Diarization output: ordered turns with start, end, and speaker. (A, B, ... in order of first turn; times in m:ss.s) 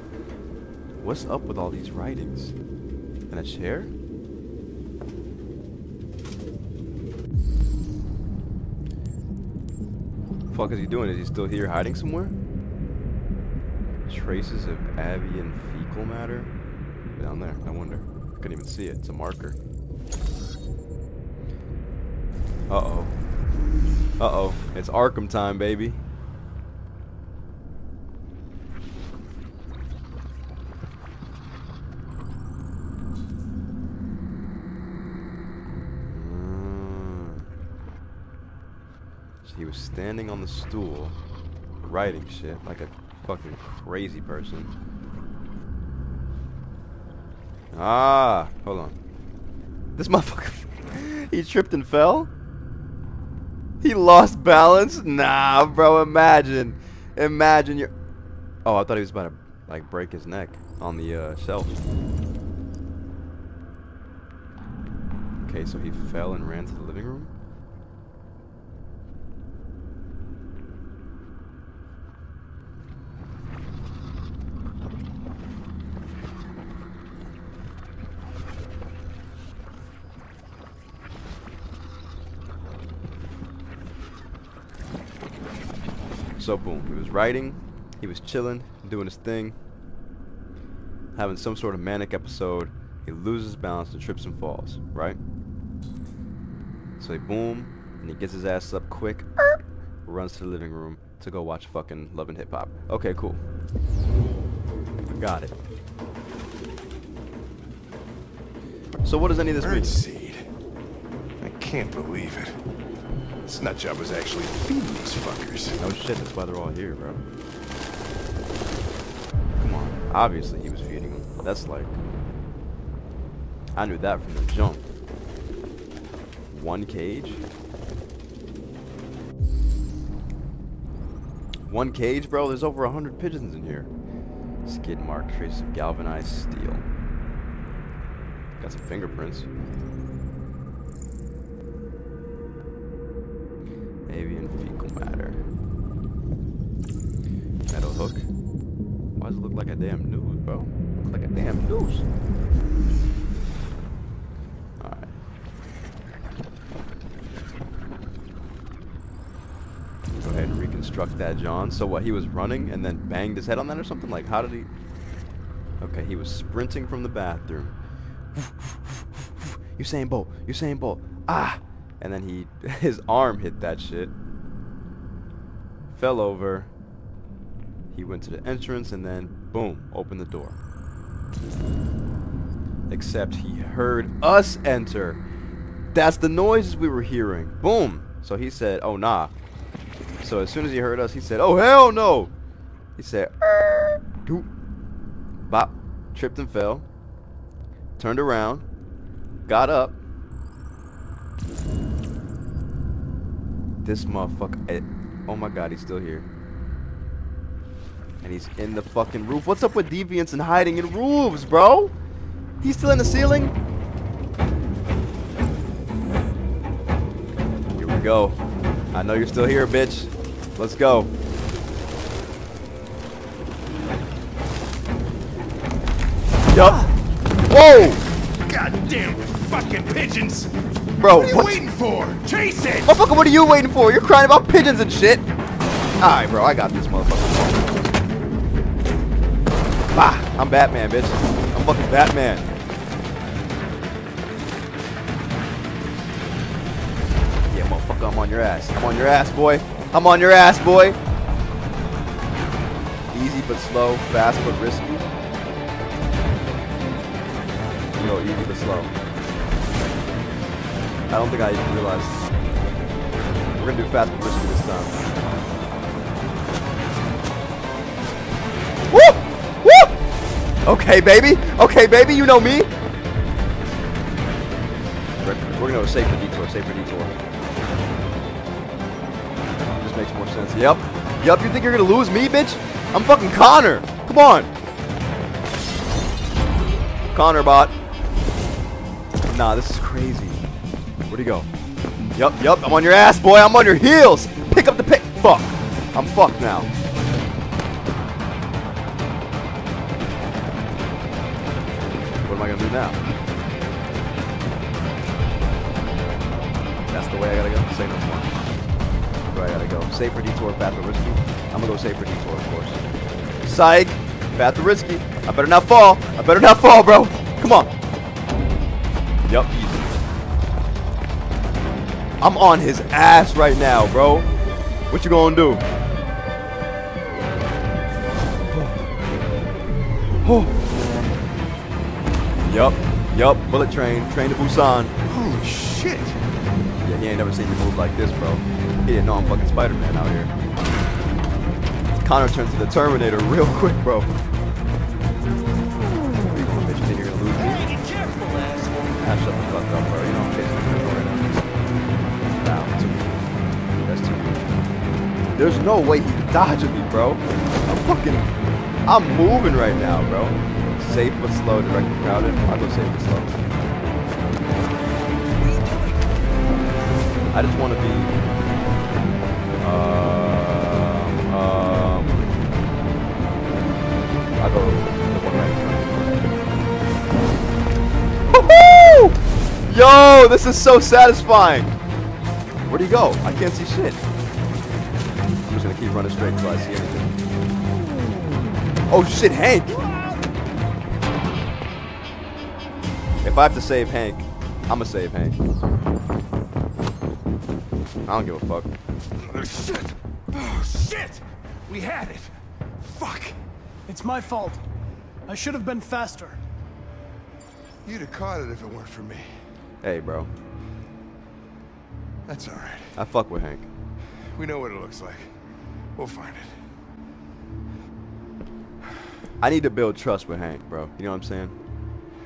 0:01.0-0:02.6 A
0:03.3-0:03.9 A
0:10.5-0:12.4 A
0:14.1-0:16.5 A
0:17.2-0:19.6 A
0:22.7-0:23.1 A
0:24.2-0:26.0 A
0:36.1-0:37.4 A
0:39.4-0:41.2 A
0:41.8-0:44.7 A
0:47.7-0:49.0 A
0:50.0-0:52.3 A
0:53.8-0:57.9 A
0:58.6-1:01.8 A
1:05.4-1:07.3 A
1:26.4-1:29.6 A
1:31.2-1:35.2 A
1:37.0-1:43.4 A
1:45.1-1:45.6 A
1:48.9-1:50.5 B
1:49.0-1:50.0 A
1:51.4-1:52.6 B
1:53.4-1:55.8 B
1:55.8-1:57.2 A
1:59.6-2:02.0 A
2:03.8-2:04.8 A
2:06.5-2:07.4 A
2:11.6-2:13.9 A
2:14.6-2:16.8 A
2:18.6-2:19.5 A
2:24.1-2:25.4 A
2:27.7-2:28.3 A
2:29.2-2:32.0 A
2:34.8-2:35.1 A
2:40.2-2:44.7 A
2:45.8-2:47.8 A
2:48.3-2:54.1 A
2:55.9-2:56.7 A
2:57.9-3:00.6 A
3:02.9-3:05.2 A
3:05.9-3:09.3 A
3:10.2-3:12.3 A
3:13.0-3:14.5 A
3:15.4-3:16.9 A
3:18.0-3:18.7 A
3:19.5-3:20.0 A
3:23.8-3:26.3 A
3:28.2-3:31.9 A
3:32.6-3:33.6 A
3:37.7-3:38.4 A
3:38.9-3:41.1 A
3:46.5-3:46.9 A
3:47.5-3:48.0 A
3:48.5-3:53.0 B
3:51.0-3:51.6 A
3:52.8-3:55.3 A
3:56.0-3:57.9 A
3:59.9-4:02.5 A
4:07.5-4:11.0 A
4:13.1-4:15.1 A
4:18.0-4:19.0 A
4:21.1-4:22.2 A
4:23.6-4:25.1 A
4:28.9-4:30.0 A
4:30.6-4:32.7 A
4:35.2-4:37.2 A
4:39.8-4:44.5 A
4:47.1-4:47.8 A
4:49.2-4:50.4 A
4:51.1-4:51.5 A
4:52.1-4:56.7 A
5:02.2-5:03.0 A
5:06.9-5:08.4 A
5:09.3-5:12.8 A
5:13.4-5:17.7 A
5:19.2-5:20.0 A
5:22.2-5:24.3 A
5:24.9-5:25.6 A
5:28.5-5:28.8 A
5:30.2-5:30.6 A
5:32.4-5:35.0 A
5:35.1-5:36.2 B
5:36.8-5:40.3 A
5:42.0-5:44.1 A
5:46.0-5:47.7 A
5:47.5-5:48.9 B
5:49.0-5:51.5 A
5:52.3-5:53.3 A
5:53.8-5:54.5 A
5:55.4-5:58.3 A
5:58.9-6:03.4 A
6:07.3-6:08.1 A
6:09.6-6:12.3 A
6:14.4-6:16.2 A
6:18.3-6:21.7 A
6:22.7-6:24.0 A
6:25.5-6:27.2 A
6:28.9-6:29.8 A
6:33.2-6:35.4 A
6:38.1-6:38.7 A
6:39.2-6:43.4 B
6:43.9-6:44.6 C
6:45.3-6:46.4 C
6:47.8-6:49.3 B
6:49.8-6:50.3 A
6:52.3-6:52.9 B
6:53.0-6:53.7 A
6:54.4-6:55.4 B
6:56.0-6:56.6 B
6:59.4-7:01.6 A